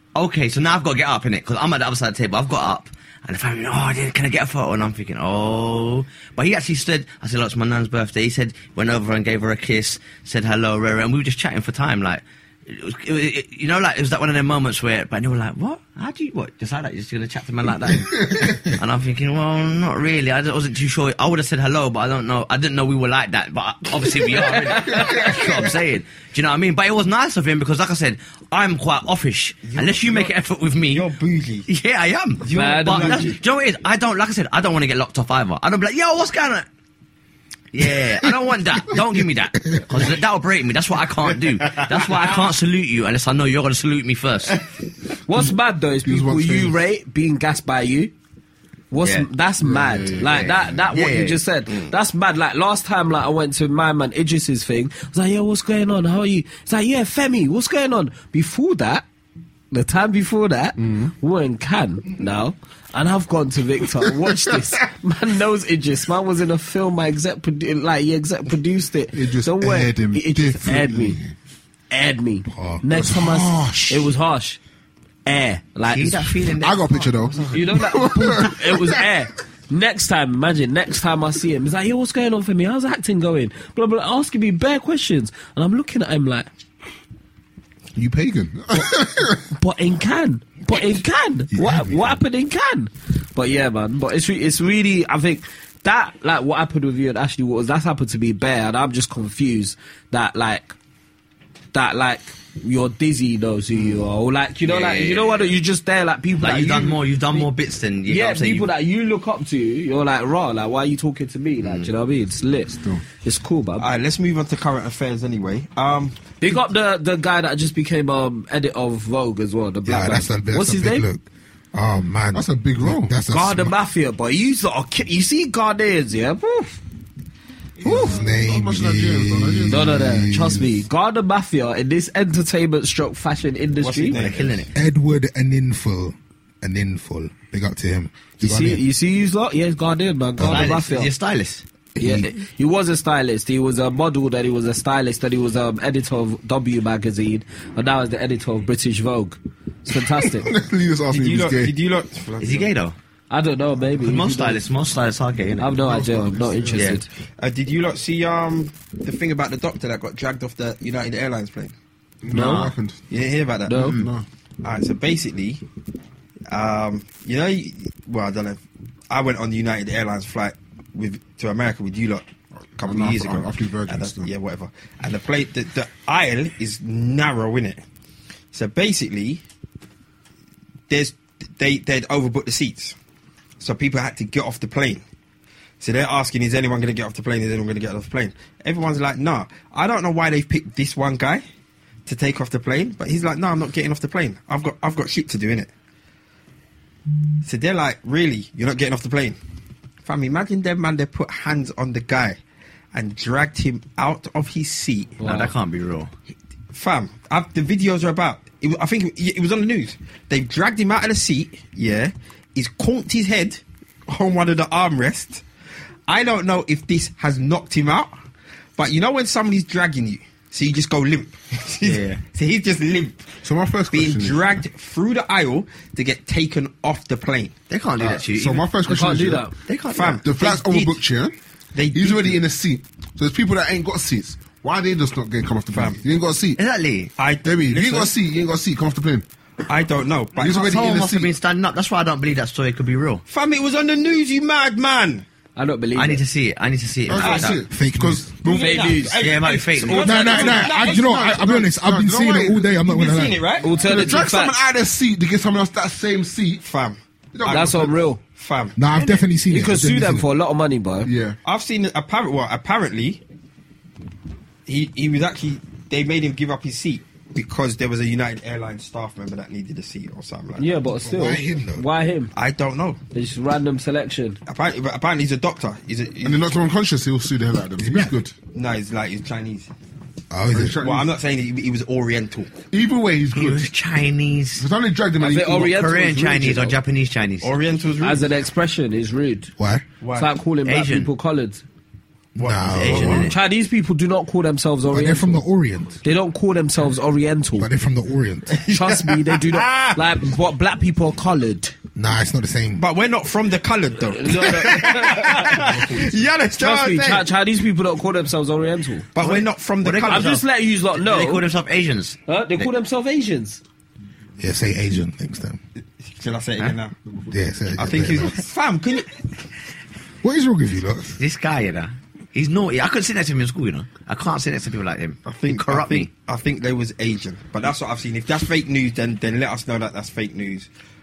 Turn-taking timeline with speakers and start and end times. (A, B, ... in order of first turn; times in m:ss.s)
0:00.2-0:31.1 A
0:24.3-0:25.5 B
0:29.6-0:30.3 C
0:30.8-0:31.7 C
0:31.7-0:36.7 A
0:32.4-0:33.4 C
0:32.5-0:33.4 B
0:37.7-0:44.6 A
0:41.9-0:42.5 B
0:45.3-0:48.1 B
0:46.0-0:46.8 D
0:48.9-0:59.0 B
0:49.6-0:50.8 D
0:50.2-0:51.9 A
0:59.7-1:11.2 B
1:00.8-1:01.1 D
1:09.1-1:11.3 D
1:11.9-1:14.6 B
1:12.5-1:12.9 E
1:12.9-1:14.0 D
1:15.3-1:16.4 B
1:15.8-1:17.9 A
1:16.6-1:19.0 D
1:17.5-1:26.5 B
1:28.0-1:29.4 D
1:29.5-1:40.8 B
1:31.5-1:32.1 E
1:41.7-1:47.5 B
1:44.6-1:45.5 A
1:46.4-1:48.7 A
1:48.1-1:53.9 B
1:51.6-1:51.9 A
1:53.8-1:56.2 C
1:56.4-2:01.1 B
1:59.9-2:03.7 E
2:02.3-2:03.2 D
2:03.3-2:06.8 B
2:07.8-2:10.0 D
2:07.8-2:08.1 B
2:07.8-2:10.8 E
2:09.7-2:14.2 B
2:13.8-2:14.7 C
2:14.2-2:14.7 A
2:14.7-2:18.8 E
2:18.4-2:21.1 B
2:20.4-2:20.7 E
2:20.4-2:21.6 A
2:22.0-2:22.3 E
2:22.0-2:30.5 B
2:30.2-2:31.7 D
2:31.1-2:32.7 C
2:32.4-2:33.0 A
2:33.3-2:34.6 B
2:34.0-2:35.8 A
2:35.6-2:37.1 B
2:35.8-2:37.0 D
2:36.8-2:41.7 C
2:42.2-2:43.2 D
2:42.3-2:42.7 B
2:42.3-2:42.7 A
2:43.1-2:44.0 C
2:43.7-2:44.0 B
2:43.7-2:44.3 D
2:44.6-2:45.6 C
2:46.5-2:52.2 C
2:52.8-2:57.8 C
2:52.8-2:54.3 D
2:58.5-2:59.4 C
3:00.9-3:03.0 C
3:03.6-3:05.0 C
3:05.8-3:11.4 C
3:12.1-3:15.7 C
3:17.4-3:19.4 C
3:20.0-3:22.4 C
3:22.9-3:25.2 C
3:25.2-3:25.5 B
3:25.2-3:26.1 A
3:26.7-3:35.4 C
3:36.1-3:38.1 C
3:38.8-3:43.3 C
3:41.8-3:42.1 A
3:43.4-3:44.6 D
3:43.9-3:47.5 C
3:47.7-3:49.1 A
3:48.0-3:49.5 D
3:48.8-3:49.6 B
3:49.7-3:50.2 A
3:49.9-3:51.0 C
3:50.2-3:51.4 D
3:51.7-3:52.4 C
3:51.9-3:56.6 D
3:55.7-3:56.0 C
3:56.6-3:57.1 A
3:57.2-3:58.1 C
3:57.4-3:59.2 D
3:59.6-4:00.9 C
4:00.4-4:01.3 D
4:00.4-4:03.2 A
4:03.3-4:05.2 C
4:05.6-4:06.2 B
4:05.9-4:07.6 A
4:07.1-4:08.9 D
4:07.2-4:07.6 C
4:07.7-4:08.3 E
4:08.4-4:11.2 C
4:08.4-4:09.2 B
4:09.2-4:10.3 A
4:09.9-4:12.7 D
4:10.0-4:13.4 E
4:12.8-4:14.2 C
4:13.6-4:14.5 B
4:13.7-4:16.6 D
4:16.6-4:18.8 C
4:17.3-4:17.9 D
4:17.5-4:18.2 B
4:18.8-4:20.3 E
4:18.9-4:21.1 B
4:21.0-4:21.4 D
4:21.4-4:23.2 C
4:24.6-4:30.7 C
4:30.6-4:32.3 B
4:31.0-4:31.8 E
4:32.4-4:33.0 C
4:33.1-4:34.4 B
4:34.5-4:36.5 C
4:36.2-4:38.4 D
4:37.8-4:38.2 E
4:38.5-4:39.7 C
4:40.3-4:40.8 E
4:40.5-4:41.1 D
4:40.8-4:42.5 C
4:42.7-4:43.7 D
4:43.3-4:44.6 A
4:44.6-4:45.7 D
4:45.2-4:46.8 B
4:45.5-4:47.5 A
4:47.4-4:48.2 C
4:48.0-4:49.5 B
4:49.6-4:49.8 E
4:50.0-4:50.3 C
4:50.1-4:51.6 B
4:50.6-4:51.1 A
4:52.4-4:53.2 C
4:52.4-4:53.3 E
4:52.6-4:53.4 A
4:53.0-4:55.4 B
4:54.9-4:56.0 E
4:56.0-4:57.7 B
4:57.6-4:58.6 E
4:58.5-5:00.0 C
4:58.7-5:01.8 B
5:01.9-5:02.8 E
5:02.8-5:07.3 C
5:04.1-5:06.0 B
5:06.6-5:09.1 B
5:09.2-5:10.4 C
5:09.2-5:12.7 A
5:10.0-5:11.5 B
5:12.3-5:13.6 B
5:14.4-5:15.6 E
5:16.0-5:16.9 C
5:17.3-5:18.4 E
5:17.8-5:19.2 C
5:20.2-5:21.2 E
5:21.2-5:26.1 A
5:25.2-5:30.7 C